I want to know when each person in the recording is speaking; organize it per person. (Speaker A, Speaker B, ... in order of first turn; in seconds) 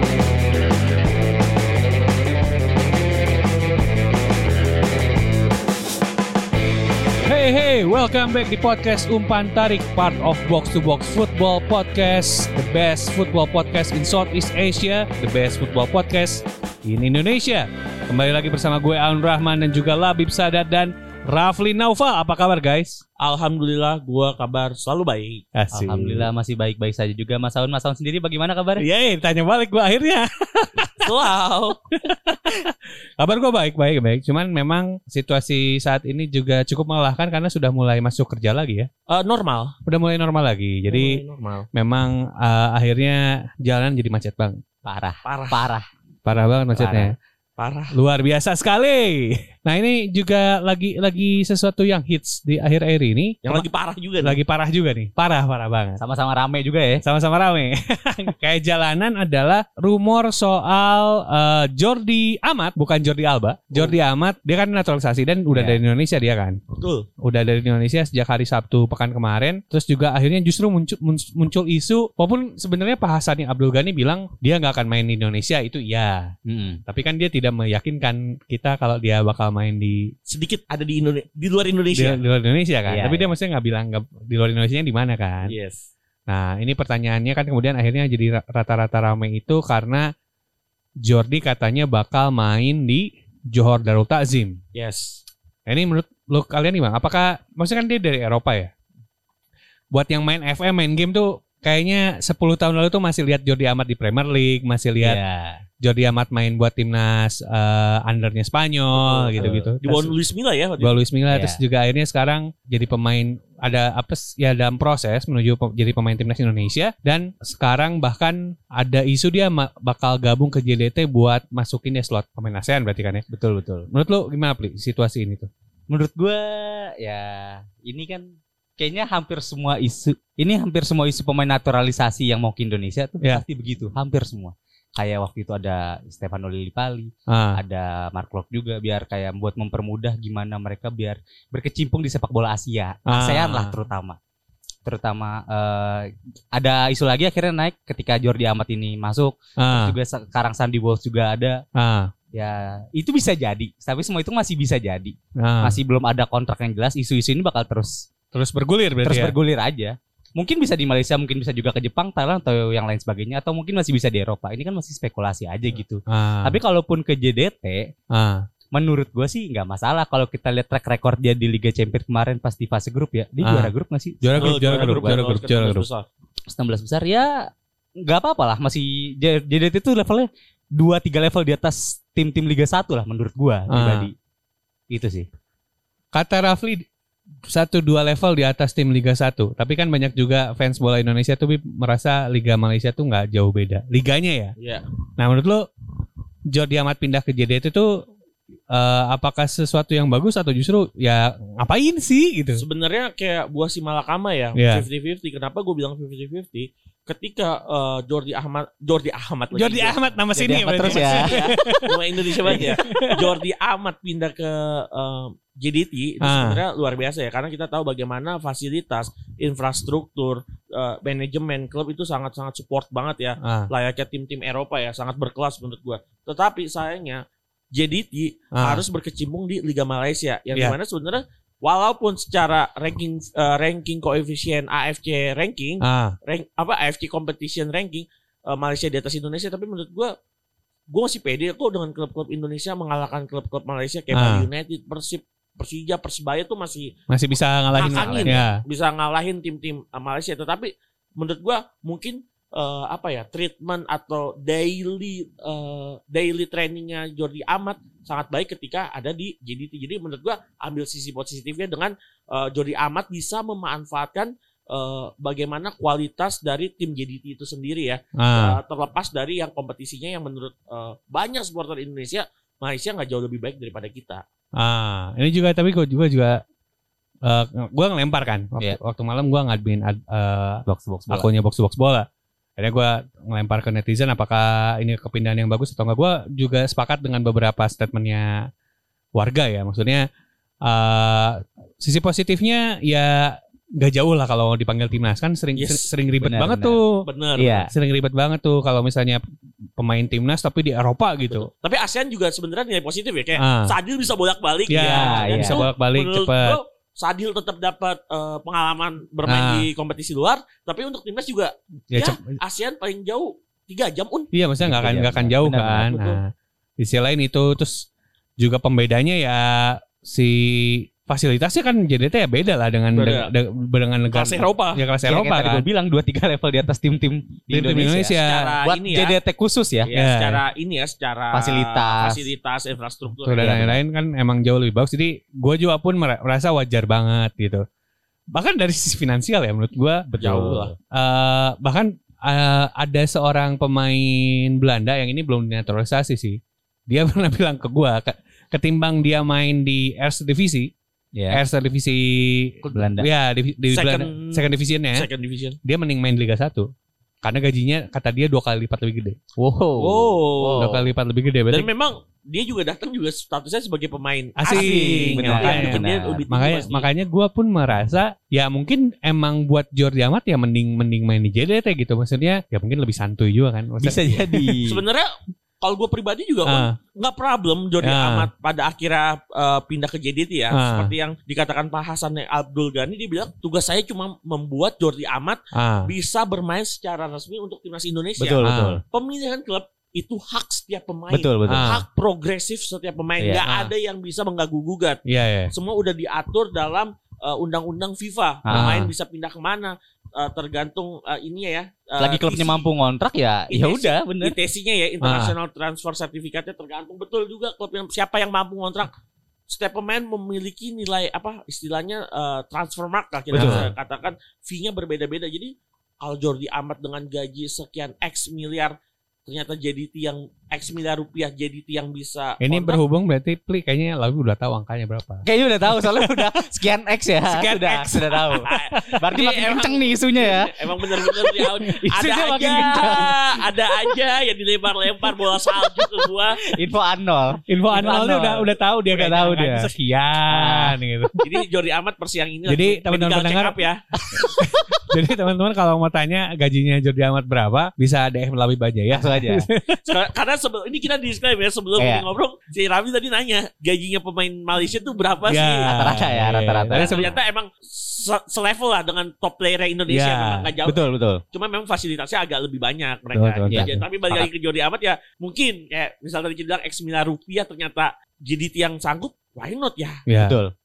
Speaker A: 7.2-23.0, 25.5-26.3, 28.8-31.1, 31.9-38.9, 39.9-44.6, 46.2-47.1, 47.9-53.6, 54.2-56.0, 57.0-66.6, 67.2-76.3, 76.8-80.1, 81.9-85.5, 86.3-90.1, 91.0-94.6, 95.7-98.7, 99.9-105.2, 105.8-110.1, 110.8-123.2, 123.9-125.5, 137.3-137.6, 143.1-143.7, 149.6-149.9, 151.7-152.1, 155.3-155.8, 158.3-159.3, 166.1-166.6, 168.1-168.4, 173.4-175.9, 183.7-184.1, 186.1-186.8, 187.5-194.5, 195.2-195.6, 196.5-198.0, 198.7-202.6, 204.6-204.8, 209.5-213.3, 216.2-216.6, 223.4-223.7, 228.6-228.8, 235.8-236.2, 244.1-244.5, 247.1-248.6, 268.2-268.6, 274.6-276.4, 277.2-282.1, 282.6-288.3, 289.1-290.1, 290.6-297.1, 297.7-299.2, 299.8-301.5, 303.4-303.7, 304.7-306.6, 309.2-309.7, 311.9-312.3, 314.3-316.3, 316.8-317.9, 318.4-325.6, 327.5-328.6, 329.9-330.4, 333.2-337.6, 338.3-340.1, 340.9-346.4, 346.9-350.7, 351.3-355.1, 355.6-356.7, 357.2-359.2, 360.5-361.7, 364.4-374.6, 376.4-376.7, 377.8-378.3, 380.5-380.9, 385.5-385.9, 388.4-388.8, 391.5-391.8, 393.4-393.7, 395.1-395.5, 398.5-398.9, 405.0-405.3, 413.3-413.7, 422.4-426.3, 427.3-429.0, 432.4-433.1, 437.5-441.2, 442.5-443.6, 444.3-449.9, 455.3-457.1, 459.9-460.5, 463.1-463.8, 470.1-470.4
Speaker B: 23.2-25.4, 31.0-31.8, 39.1-39.7, 40.9-41.6, 45.2-45.6, 47.6-48.0, 53.4-54.4, 66.7-67.1, 80.3-82.2, 85.4-85.9, 94.7-95.2, 108.9-111.0, 174.4-176.1, 194.6-194.8, 202.6-210.0, 210.8-240.1, 240.9-246.9, 247.7-274.2, 295.6-295.9, 297.0-297.6, 301.3-314.3, 315.9-316.2, 322.9-323.3, 324.1-324.8, 328.1-329.1, 329.9-333.6, 340.2-340.7, 353.7-355.6, 359.8-360.7, 361.5-366.9, 374.6-375.1, 375.6-395.0, 395.5-402.6, 403.5-408.9, 409.5-422.8, 428.4-436.4, 441.2-443.8, 449.9-455.8, 456.7-460.8, 461.3-470.0
Speaker C: 25.7-28.8, 44.8-45.9, 46.7-47.1, 56.0-57.0, 65.5-65.8, 76.5-76.8, 82.9-83.3, 105.0-105.6, 109.4-109.7, 111.3-111.6, 123.3-123.9, 125.9-144.2, 144.8-151.6, 152.3-158.0, 159.0-167.9, 168.7-175.2, 176.5-184.1, 184.9-185.3, 210.3-211.3, 247.9-248.4, 280.7-281.3, 296.2-296.8, 297.4-297.7, 304.8-305.6, 314.6-315.9, 325.0-329.9, 331.3-332.2, 333.4-333.8, 340.1-340.7, 351.1-351.4, 352.7-353.1, 359.4-360.8, 364.5-366.2, 373.8-374.8, 388.2-388.8, 391.1-391.7, 398.4-398.7, 402.0-404.3, 413.3-413.7, 425.2-428.5, 429.0-433.4, 435.0-439.7, 440.3-440.8, 444.1-444.4, 448.9-449.4, 451.8-452.0, 455.6-457.0, 460.6-461.2, 463.5-464.3, 470.2-470.5